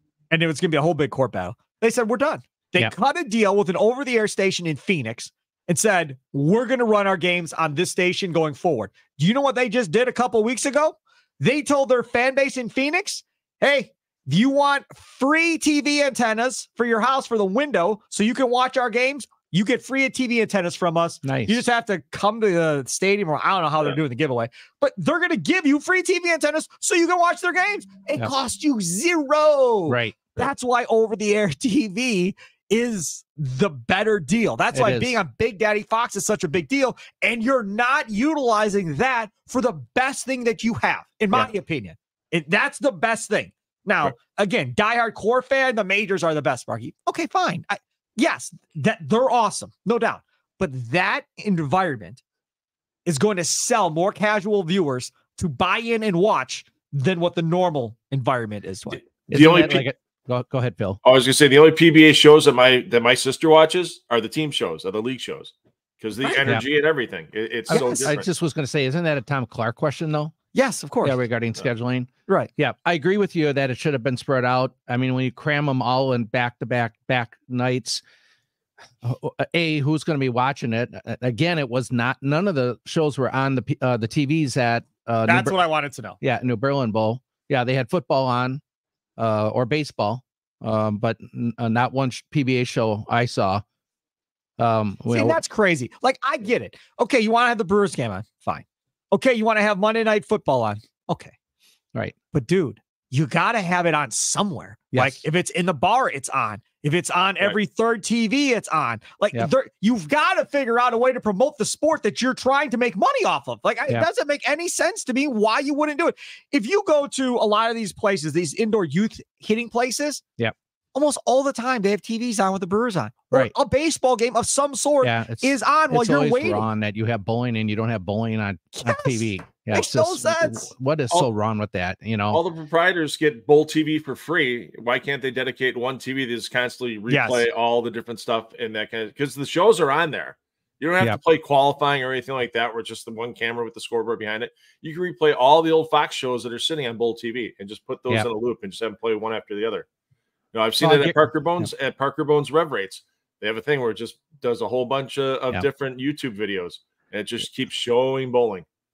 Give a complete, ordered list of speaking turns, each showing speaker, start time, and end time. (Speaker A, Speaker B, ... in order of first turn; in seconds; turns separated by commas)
Speaker A: 0.3-52.2, Speaker B: 21.2-21.6, Speaker B: 29.9-30.5, Speaker B: 34.7-35.1, Speaker A: 53.1-59.0, Speaker C: 59.2-59.8, Speaker B: 59.3-61.0, Speaker C: 61.0-68.3, Speaker A: 66.2-66.6, Speaker B: 67.7-70.3, Speaker A: 67.7-68.1, Speaker A: 70.5-71.2, Speaker B: 71.0-78.0, Speaker B: 79.0-85.5, Speaker A: 85.3-86.2, Speaker B: 86.2-88.6, Speaker B: 89.2-93.6, Speaker B: 94.6-95.4, Speaker A: 95.1-101.3, Speaker A: 102.3-120.2, Speaker B: 104.9-105.2, Speaker A: 121.0-126.7, Speaker B: 125.0-132.4, Speaker A: 128.8-130.7, Speaker C: 132.3-149.9, Speaker A: 137.1-137.5, Speaker C: 150.5-158.7, Speaker B: 150.8-151.7